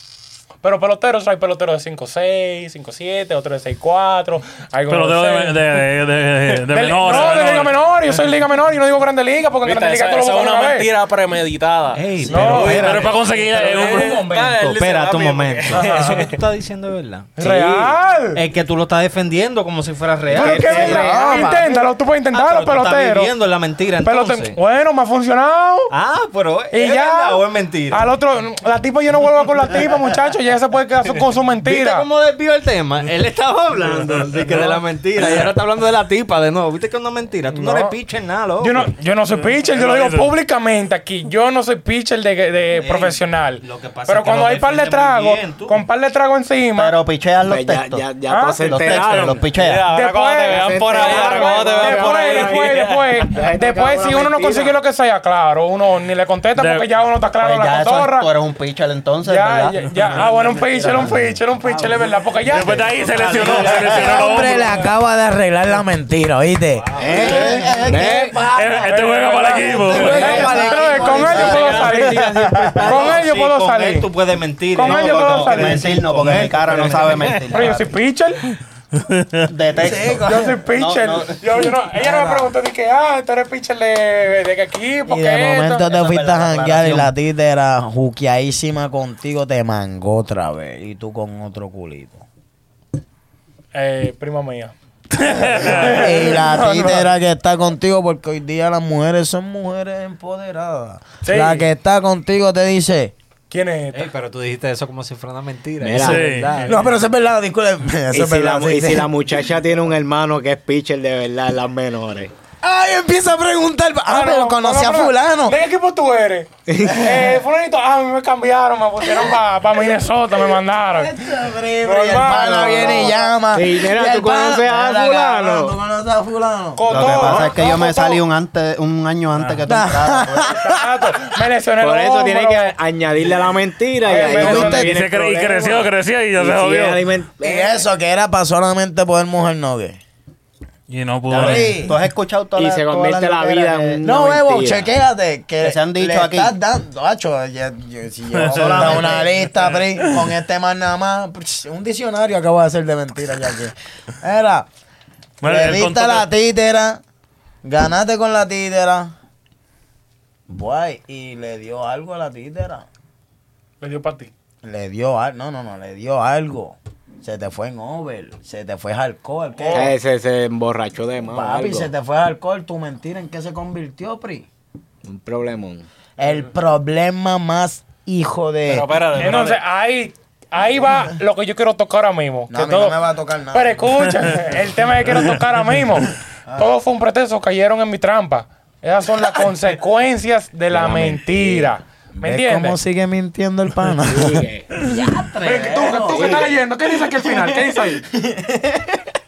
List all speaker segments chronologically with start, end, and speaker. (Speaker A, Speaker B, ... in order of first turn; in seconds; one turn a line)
Speaker A: 0.6-5.6
Speaker B: 4.9-7.8
Speaker A: 6.7-10.9
Speaker C: 9.6-16.4
Speaker D: 11.9-21.4
Speaker A: 12.3-12.9
Speaker B: 12.6-14.2
Speaker A: 17.4-18.4
Speaker A: 20.3-23.3
Speaker E: 20.4-21.6
Speaker F: 20.8-21.7
Speaker D: 22.3-24.6
Speaker A: 24.0-25.9
Speaker D: 25.9-28.0
Speaker A: 26.7-32.1
Speaker D: 31.6-38.9
Speaker A: 37.5-37.9
Speaker A: 38.6-47.0
Speaker B: 39.4-40.3
Speaker D: 42.8-45.8
Speaker G: 46.8-48.1
Speaker E: 47.4-49.5
Speaker A: 48.3-49.0
Speaker G: 48.6-49.9
Speaker C: 49.5-53.2
Speaker A: 49.9-58.3
Speaker E: 50.5-54.8
Speaker B: 56.6-56.9
Speaker G: 57.4-61.2
Speaker A: 59.2-63.8
Speaker F: 61.0-62.2
Speaker B: 62.5-64.8
Speaker G: 63.0-64.8
Speaker F: 63.2-68.2
Speaker D: 66.9-67.6
Speaker E: 67.0-68.6
Speaker G: 67.0-68.3
Speaker A: 67.2-67.5
Speaker B: 68.5-70.4
Speaker A: 68.9-72.2
Speaker G: 69.9-72.0
Speaker F: 69.9-72.7
Speaker D: 69.9-77.7
Speaker C: 71.4-72.3
Speaker A: 72.8-74.1
Speaker A: 74.8-75.9
Speaker G: 74.9-77.9
Speaker A: 77.5-78.4
Speaker G: 79.5-81.4
Speaker F: 79.8-80.6
Speaker A: 80.2-85.9
Speaker F: 81.9-82.5
Speaker F: 85.1-92.2
Speaker G: 85.8-87.1
Speaker A: 93.7-94.7
Speaker B: 95.3-95.8
Speaker F: 95.3-103.1
Speaker A: 95.5-97.1
Speaker A: 101.2-101.7
Speaker A: 103.5-104.1
Speaker D: 103.9-107.0
Speaker E: 105.8-106.4
Speaker B: 106.0-106.5
Speaker F: 106.7-109.3
Speaker E: 108.1-112.3
Speaker F: 112.6-115.6
Speaker A: 114.1-121.1
Speaker E: 116.7-117.1
Speaker F: 116.8-117.3
Speaker F: 120.7-127.7
Speaker A: 121.8-123.3
Speaker E: 122.6-125.8
Speaker A: 126.8-128.2
Speaker G: 126.9-130.5
Speaker B: 129.3-129.6
Speaker F: 129.7-130.8
Speaker A: 130.5-132.7
Speaker E: 131.8-137.9
Speaker A: 134.1-134.9
Speaker F: 134.1-135.0
Speaker B: 134.7-137.0
Speaker F: 137.4-140.0
Speaker B: 140.9-141.9
Speaker G: 141.3-144.0
Speaker F: 141.3-141.9
Speaker E: 142.6-144.9
Speaker F: 144.0-154.7
Speaker G: 145.6-146.5
Speaker B: 148.3-149.1
Speaker G: 148.5-149.8
Speaker B: 155.4-156.3
Speaker F: 155.4-157.0
Speaker F: 157.6-159.1
Speaker F: 160.5-162.9
Speaker A: 163.8-164.3
Speaker F: 164.6-169.9
Speaker A: 169.6-169.9
Speaker E: 169.7-171.9
Speaker F: 171.3-174.5
Speaker E: 175.1-175.9
Speaker F: 176.2-178.9
Speaker C: 178.7-179.6
Speaker A: 179.2-183.0
Speaker F: 182.5-183.9
Speaker A: 183.5-192.8
Speaker E: 190.8-191.8
Speaker F: 192.1-196.5
Speaker E: 194.1-196.5
Speaker A: 195.4-198.0
Speaker F: 197.1-199.0